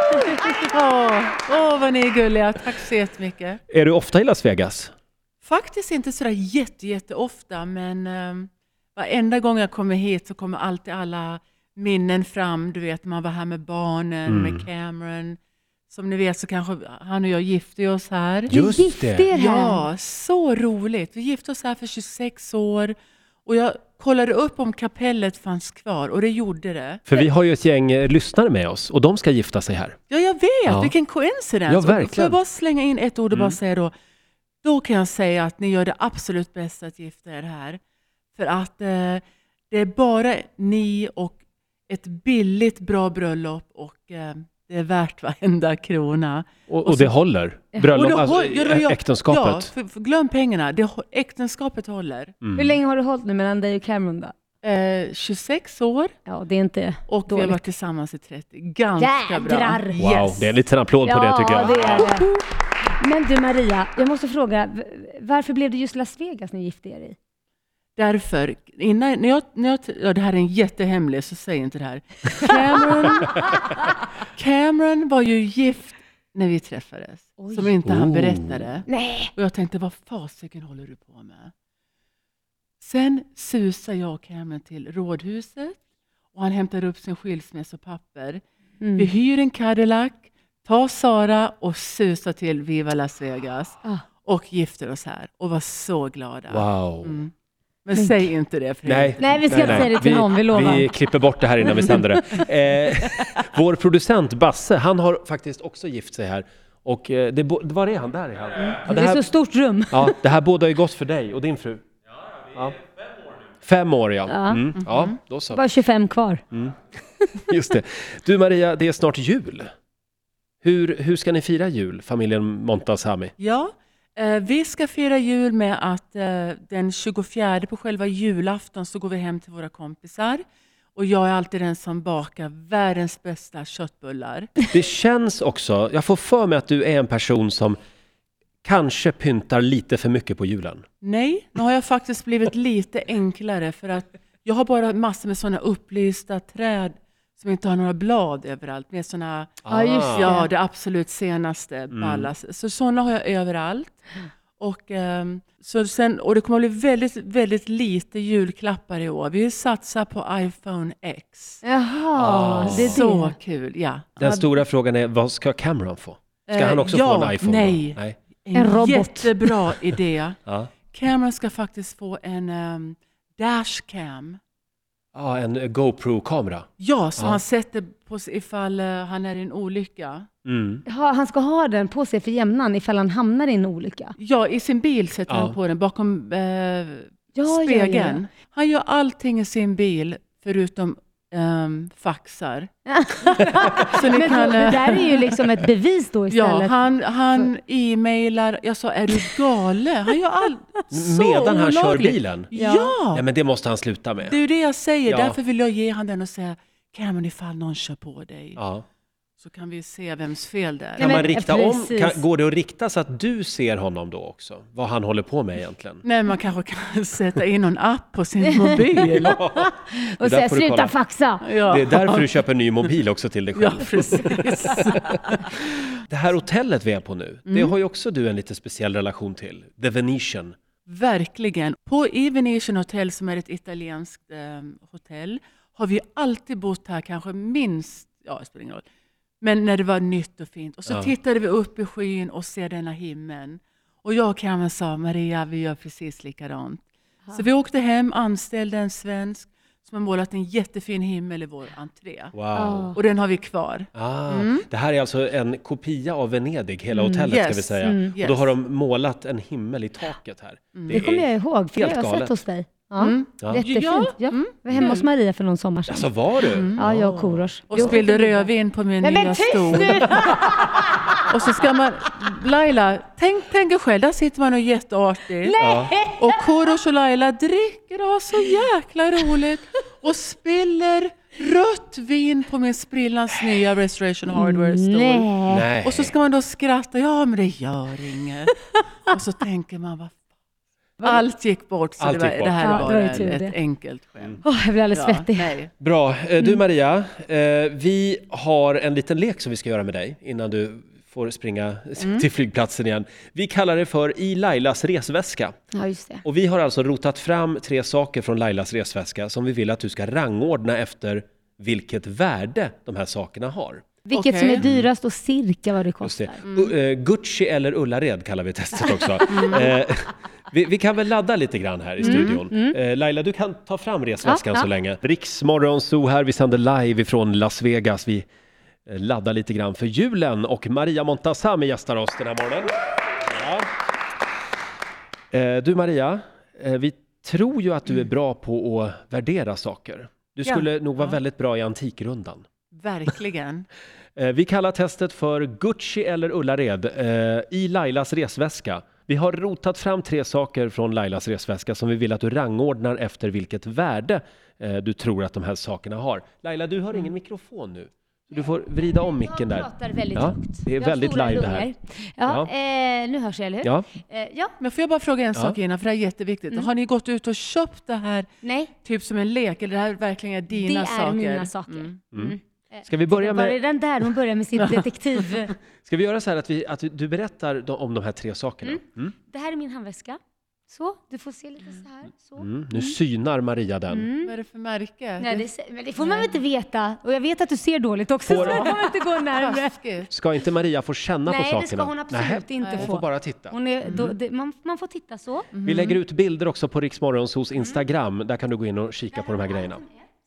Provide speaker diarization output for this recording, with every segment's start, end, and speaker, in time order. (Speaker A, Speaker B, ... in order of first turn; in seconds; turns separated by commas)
Speaker A: 0.6-3.6, Speaker B: 3.7-4.9, Speaker A: 5.4-15.4, Speaker B: 14.3-14.7, Speaker A: 15.9-18.5, Speaker B: 18.5-19.3, Speaker C: 18.5-19.9, Speaker A: 19.3-27.2, Speaker B: 27.1-30.0, Speaker A: 30.1-33.9, Speaker B: 30.6-30.9, Speaker B: 31.7-32.4, Speaker B: 33.3-33.6, Speaker A: 34.6-37.8, Speaker A: 38.3-47.1, Speaker B: 46.7-49.7, Speaker A: 47.9-52.3, Speaker B: 52.4-52.8, Speaker C: 52.5-54.3, Speaker A: 54.6-56.1, Speaker C: 56.2-57.6, Speaker A: 57.1-60.5, Speaker C: 59.0-60.0, Speaker B: 60.0-62.2, Speaker C: 61.0-62.4, Speaker A: 61.7-62.1, Speaker C: 63.0-67.2, Speaker A: 68.0-73.5, Speaker A: 74.3-81.5, Speaker C: 77.4-77.8, Speaker B: 77.8-78.6, Speaker C: 78.9-79.3, Speaker A: 82.8-85.8, Speaker A: 86.3-88.4, Speaker C: 88.8-89.1, Speaker A: 89.0-97.3, Speaker B: 96.5-97.2, Speaker A: 97.8-99.9, Speaker C: 97.9-98.3, Speaker B: 98.8-109.2, Speaker C: 99.2-100.9, Speaker A: 101.9-102.4, Speaker C: 108.9-110.2, Speaker B: 109.9-111.8, Speaker B: 112.5-112.8, Speaker B: 113.6-115.6, Speaker C: 114.3-114.6, Speaker A: 114.8-115.1, Speaker C: 115.5-116.4, Speaker B: 116.5-116.8, Speaker B: 117.4-119.7, Speaker B: 120.6-123.3, Speaker A: 123.4-130.4, Speaker A: 130.9-134.5, Speaker B: 134.7-137.8, Speaker B: 138.6-140.8, Speaker A: 141.0-154.0, Speaker B: 149.6-150.4, Speaker C: 149.7-150.5, Speaker B: 151.9-152.3, Speaker A: 154.6-161.6, Speaker C: 161.6-163.3, Speaker B: 162.1-163.0, Speaker A: 162.6-164.1, Speaker B: 164.2-168.2, Speaker C: 164.2-164.5, Speaker A: 166.5-170.4, Speaker C: 168.5-169.6, Speaker A: 170.9-174.4, Speaker B: 175.1-177.4, Speaker A: 176.8-180.3, Speaker B: 180.4-180.8, Speaker C: 180.8-184.2, Speaker A: 184.2-192.7, Speaker B: 185.3-185.5, Speaker C: 187.3-188.2, Speaker C: 192.8-196.8, Speaker A: 193.7-195.3, Speaker A: 196.3-203.2, Speaker B: 200.9-202.5, Speaker C: 202.5-202.9, Speaker B: 203.1-204.3, Speaker A: 204.2-208.6, Speaker B: 205.1-205.3, Speaker B: 208.6-208.8, Speaker A: 209.4-211.2, Speaker C: 211.0-212.2, Speaker B: 211.0-216.0, Speaker A: 216.0-219.5, Speaker C: 218.4-218.8, Speaker B: 219.1-220.9, Speaker C: 220.0-221.5, Speaker A: 221.4-222.4, Speaker B: 221.7-225.4, Speaker A: 223.5-225.6, Speaker B: 226.1-230.6, Speaker A: 227.5-227.7, Speaker A: 230.8-238.8, Speaker A: 239.4-252.3, Speaker B: 252.3-252.9, Speaker C: 252.5-253.0, Speaker A: 252.9-254.7, Speaker B: 253.9-262.3, Speaker C: 256.9-258.1, Speaker A: 257.3-258.5, Speaker A: 260.8-261.0, Speaker C: 260.9-268.5, Speaker A: 263.0-264.9, Speaker B: 264.7-265.0, Speaker B: 265.9-267.4, Speaker A: 266.5-266.9, Speaker A: 267.7-270.5, Speaker C: 269.0-271.3, Speaker A: 271.3-288.5, Speaker C: 275.4-276.4, Speaker B: 275.6-275.9, Speaker C: 284.3-285.7, Speaker B: 285.5-286.1, Speaker A: 289.1-290.2, Speaker A: 291.0-295.7, Speaker B: 292.0-293.2, Speaker C: 292.6-293.6, Speaker C: 294.4-295.6, Speaker B: 295.8-305.6, Speaker A: 302.0-302.2, Speaker C: 305.7-306.2, Speaker B: 306.2-313.9, Speaker C: 314.1-316.4, Speaker A: 314.1-314.6, Speaker B: 314.6-314.9, Speaker B: 316.0-328.3, Speaker C: 318.8-319.7, Speaker A: 319.3-319.7, Speaker C: 322.0-322.8, Speaker C: 324.2-324.7, Speaker B: 328.9-333.7, Speaker B: 335.3-342.4, Speaker A: 340.4-341.2, Speaker A: 342.7-343.7, Speaker B: 344.2-361.7, Speaker C: 358.8-364.6, Speaker B: 362.2-362.5, Speaker A: 364.6-368.3, Speaker C: 368.4-368.7, Speaker A: 368.8-372.0, Speaker C: 370.5-375.6, Speaker B: 372.1-373.6, Speaker A: 374.6-375.3, Speaker B: 375.9-379.1, Speaker C: 378.6-380.2, Speaker C: 380.7-383.0, Speaker B: 382.4-384.1, Speaker C: 383.9-384.3, Speaker A: 384.2-386.4, Speaker C: 385.2-389.8, Speaker B: 388.2-388.8, Speaker A: 388.3-390.1, Speaker B: 390.1-394.0, Speaker C: 391.3-395.5, Speaker A: 393.8-394.2, Speaker A: 395.5-396.0, Speaker B: 395.6-399.8, Speaker C: 399.1-399.9